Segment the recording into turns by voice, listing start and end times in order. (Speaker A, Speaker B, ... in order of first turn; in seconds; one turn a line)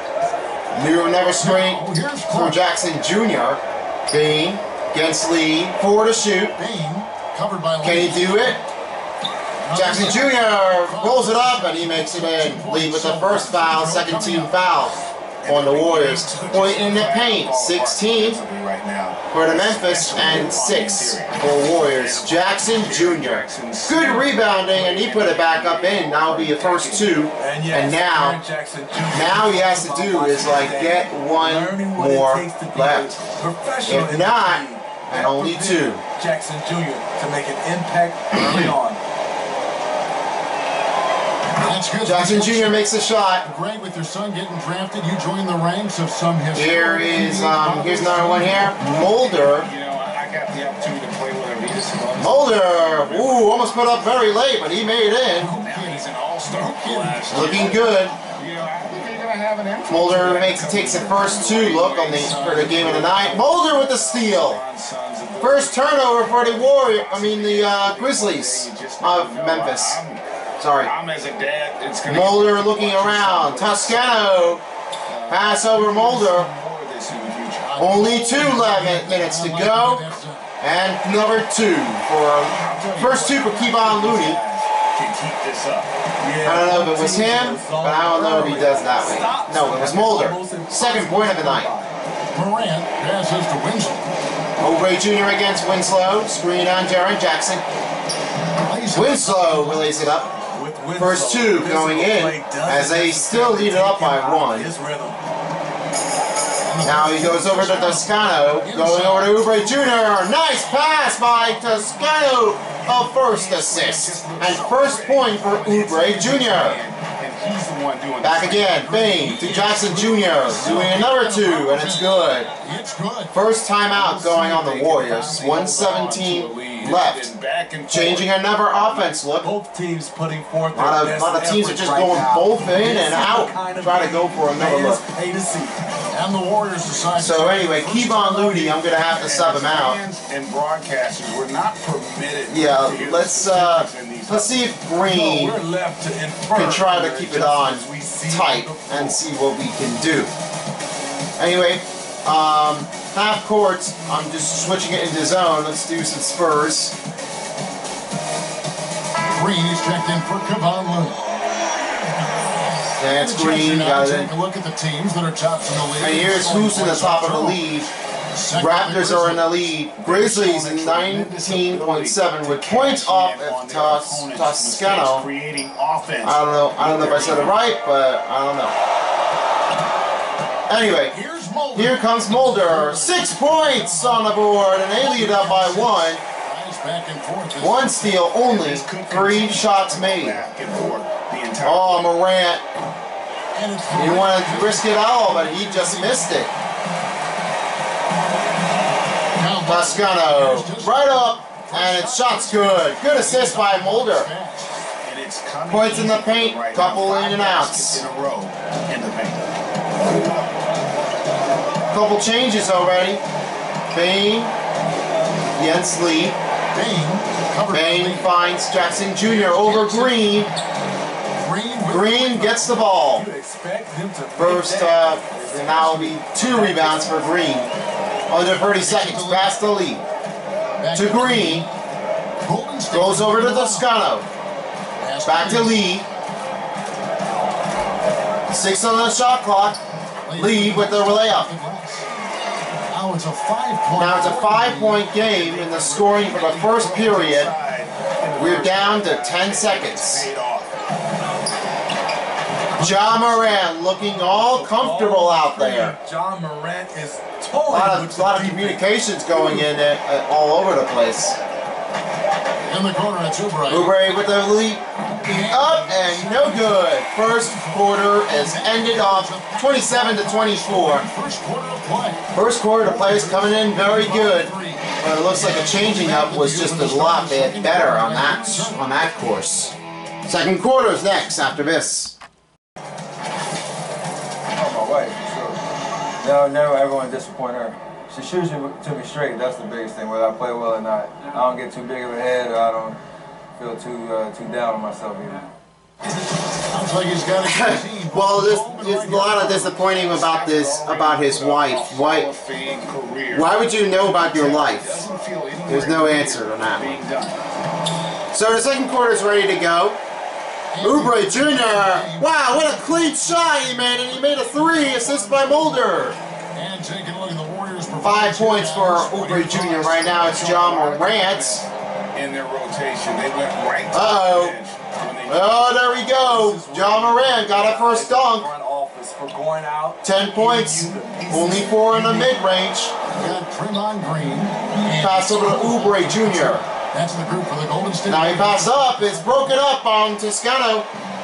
Speaker A: 0.7-6.6
Speaker B: 1.4-2.6
Speaker B: 6.6-8.6
Speaker A: 7.8-8.6
Speaker B: 9.6-14.6
Speaker A: 9.8-18.4
Speaker C: 15.4-27.2
Speaker A: 19.3-28.4
Speaker D: 27.4-39.0
Speaker A: 29.1-33.2
Speaker A: 33.9-36.0
Speaker B: 38.4-38.7
Speaker B: 41.6-42.9
Speaker A: 42.1-43.5
Speaker B: 43.4-48.8
Speaker A: 46.5-49.7
Speaker C: 49.0-54.8
Speaker A: 52.2-55.5
Speaker B: 55.4-57.7
Speaker C: 55.5-70.2
Speaker A: 57.3-58.2
Speaker A: 59.9-64.6
Speaker B: 62.1-63.1
Speaker A: 65.4-70.0
Speaker A: 70.6-70.9
Speaker C: 70.8-77.7
Speaker A: 72.1-74.6
Speaker A: 75.3-76.5
Speaker B: 77.6-80.5
Speaker A: 77.8-80.0
Speaker A: 80.6-84.4
Speaker C: 82.6-85.9
Speaker D: 86.2-92.0
Speaker A: 86.5-91.7
Speaker B: 92.3-94.1
Speaker A: 94.6-97.6
Speaker B: 98.6-100.3
Speaker A: 99.0-100.3
Speaker D: 100.5-105.2
Speaker A: 101.0-104.7
Speaker B: 106.7-110.2
Speaker A: 106.8-116.8
Speaker B: 111.3-112.2
Speaker C: 112.8-119.0
Speaker B: 114.5-116.1
Speaker A: 118.2-122.5
Speaker B: 118.8-123.3
Speaker A: 123.3-127.3
Speaker C: 123.9-129.1
Speaker A: 127.9-129.5
Speaker D: 129.4-135.7
Speaker A: 130.7-135.0
Speaker B: 136.1-138.8
Speaker A: 137.2-140.0
Speaker C: 139.0-144.6
Speaker A: 142.5-145.6
Speaker D: 145.1-149.2
Speaker A: 146.5-150.3
Speaker A: 151.4-156.9
Speaker B: 159.3-161.2
Speaker A: 163.0-164.3
Speaker B: 163.0-169.8
Speaker A: 166.0-167.9
Speaker A: 168.6-175.3
Speaker C: 170.0-177.6
Speaker A: 176.2-178.8
Speaker A: 180.7-181.2
Speaker B: 181.1-188.3
Speaker A: 181.8-186.2
Speaker A: 187.6-190.4
Speaker C: 188.4-192.1
Speaker A: 191.6-192.6
Speaker B: 193.6-196.4
Speaker A: 193.9-196.5
Speaker B: 199.4-204.8
Speaker A: 199.7-204.3
Speaker C: 205.0-209.5
Speaker A: 205.7-208.1
Speaker A: 211.9-213.2
Speaker A: 213.9-214.5
Speaker A: 215.6-216.4
Speaker B: 216.7-218.3
Speaker A: 217.7-220.5
Speaker B: 219.2-220.4
Speaker B: 221.4-222.9
Speaker A: 221.9-223.3
Speaker D: 223.1-227.2
Speaker A: 224.4-227.7
Speaker A: 228.3-230.0
Speaker B: 228.8-229.6
Speaker B: 230.8-231.7
Speaker A: 230.9-231.7
Speaker B: 232.4-233.9
Speaker A: 232.9-234.3
Speaker B: 235.0-235.8
Speaker A: 235.2-236.1
Speaker A: 238.5-239.8
Speaker B: 240.2-245.2
Speaker A: 240.4-241.5
Speaker A: 243.9-247.5
Speaker C: 245.2-250.7
Speaker A: 248.4-250.3
Speaker B: 252.7-253.6
Speaker A: 252.8-255.9
Speaker D: 254.2-258.9
Speaker A: 257.7-261.4
Speaker B: 262.7-263.9
Speaker A: 263.7-271.1
Speaker B: 265.0-272.2
Speaker A: 272.3-282.1
Speaker B: 272.8-279.7
Speaker E: 284.6-285.6
Speaker E: 286.2-293.0
Speaker E: 293.6-295.5
Speaker B: 296.1-299.8
Speaker A: 297.4-302.3
Speaker C: 299.8-307.4
Speaker A: 303.3-305.1
Speaker A: 305.7-307.0
Speaker A: 308.3-310.0
Speaker B: 310.7-320.4
Speaker A: 310.8-316.2
Speaker A: 318.0-321.6
Speaker C: 319.7-325.7
Speaker A: 323.9-324.6
Speaker A: 325.3-328.5
Speaker D: 326.2-331.3
Speaker A: 330.0-332.9
Speaker C: 331.2-332.3
Speaker B: 333.0-339.6
Speaker A: 334.9-336.6
Speaker A: 338.1-340.9